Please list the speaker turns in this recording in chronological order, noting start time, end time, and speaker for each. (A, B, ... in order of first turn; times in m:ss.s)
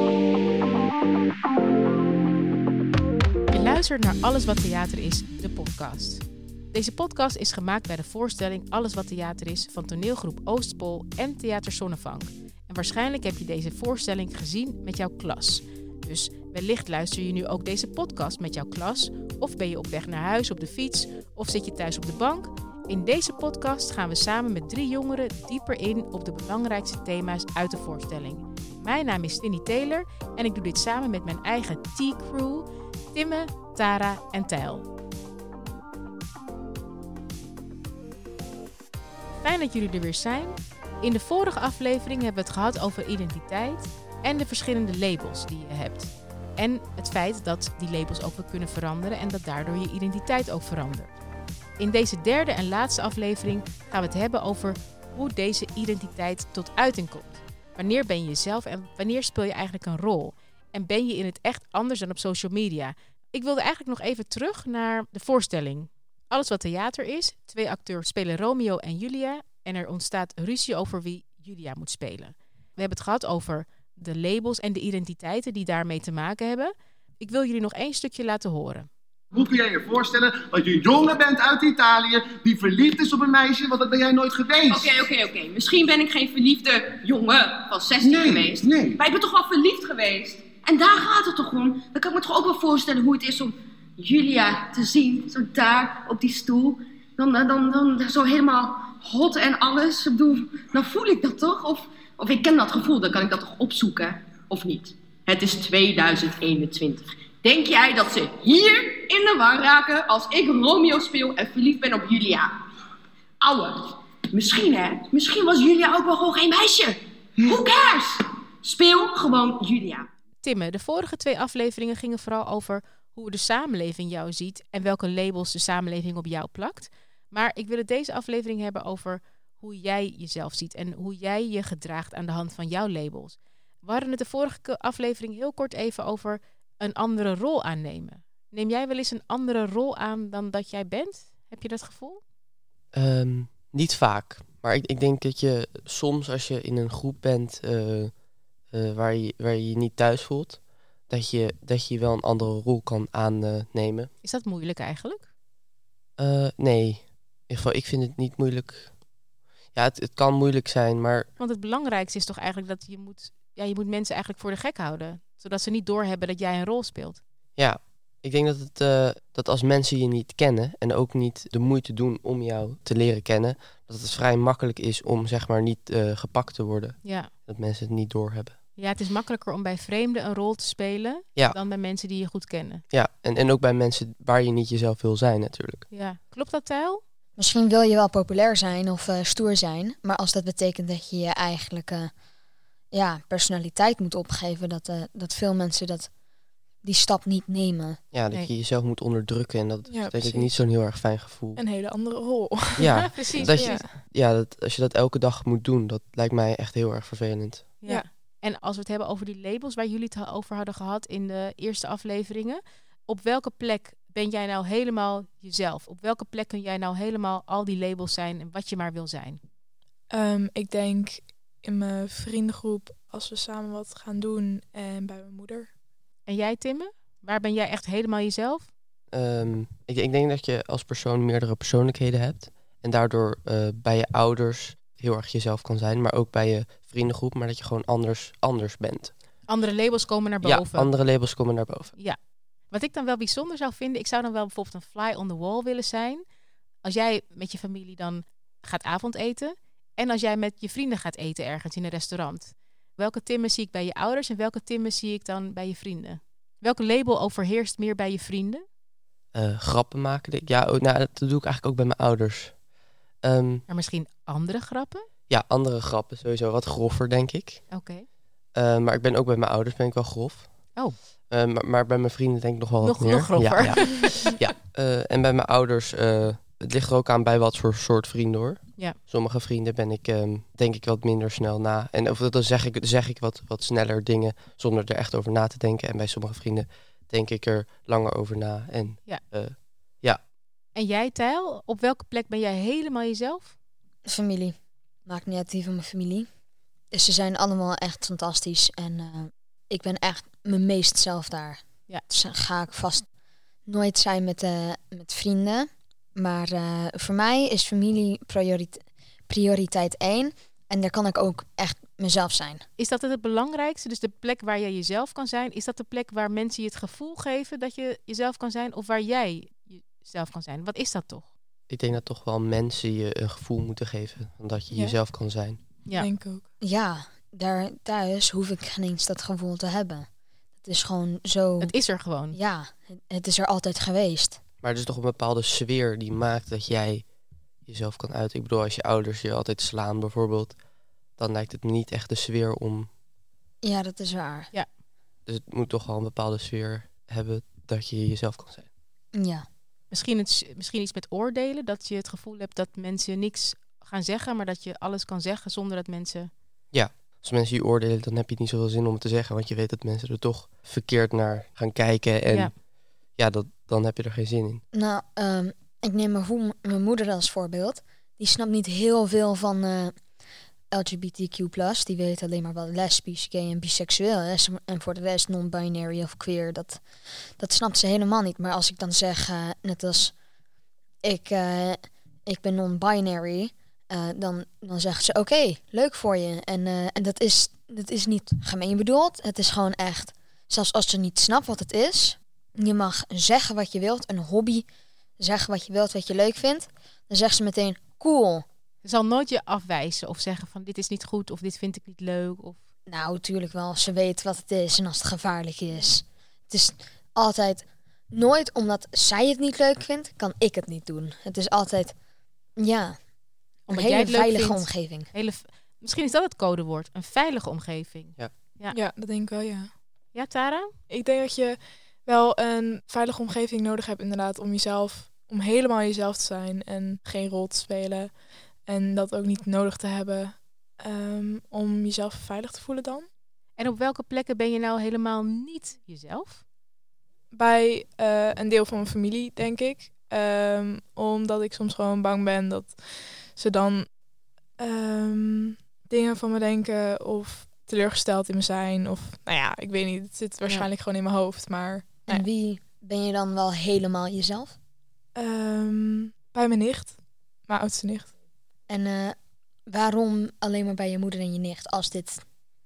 0:03.5-0:34.9 A
0:39.4-0:51.1 A
0:51.8-1:18.9 A
1:19.3-1:25.1 B
1:24.7-1:52.5 C
1:28.0-1:29.0 B
1:53.4-2:00.1 C
2:00.4-2:22.2 A
2:22.9-2:34.1 D
2:34.2-2:35.3 A
2:36.2-2:39.0 D
2:39.7-2:41.3 D
2:41.4-2:47.2 A
2:47.6-2:58.6 D
2:57.0-2:57.3 A
2:58.8-3:02.8 A
3:02.9-3:05.8 D
3:05.9-3:07.0 A
3:07.4-3:12.1 E
3:12.9-3:16.1 E
3:16.8-3:18.0 E
3:18.1-3:21.6 D
3:19.9-3:20.7 F
3:21.6-3:23.9 F
3:22.8-3:23.8 A
3:22.8-3:27.8 D
3:27.8-3:39.4 A
3:40.1-3:45.7 F
3:46.2-3:48.7 A
3:49.1-3:59.1 D
3:59.4-4:00.9 A
4:00.4-4:01.9 D
4:02.0-4:06.2 A
4:06.8-4:18.6 A
4:19.3-4:22.6 D
4:23.2-4:23.6 D
4:23.7-4:25.0 A
4:25.3-4:27.7 D
4:27.7-4:28.0 A
4:28.5-4:50.2 D
4:32.8-4:34.2 A
4:50.7-4:53.6 A
4:54.0-4:54.5 E
4:55.0-4:56.3 E
4:56.9-5:03.1 E
5:03.7-5:12.6 E
5:12.8-5:21.3 A
5:21.7-5:25.6 D
5:24.7-5:25.0 F
5:25.9-5:26.4 F
5:26.6-5:30.1 E
5:30.6-5:31.7 E
5:31.6-5:32.4 A
5:32.3-5:34.4 E
5:34.6-5:37.0 D
5:37.6-5:40.6 D
5:41.2-5:42.9 D
5:43.6-5:44.5 E
5:45.3-5:48.7 D
5:49.1-5:49.4 E
5:49.9-5:56.3 A
5:56.7-6:02.6 D
6:02.3-6:02.5 A
6:03.1-6:04.6 D
6:04.7-6:10.0 E
6:10.7-6:16.8 E
6:17.4-6:20.1 E
6:21.0-6:34.7 E
6:35.2-6:38.4 E
6:38.8-6:42.6 A
6:42.9-6:51.9 E
6:52.6-6:53.0 E
6:53.7-6:58.8 A
6:53.7-6:55.1 E
6:58.7-6:59.8 F
7:00.1-7:00.7 A
7:00.9-7:13.1 F
7:13.6-7:16.4 A
7:17.3-7:23.9 F
7:24.6-7:32.2 F
7:32.1-7:34.6 E
7:35.2-7:38.1 F
7:38.7-7:39.2 E
7:39.7-7:42.2 E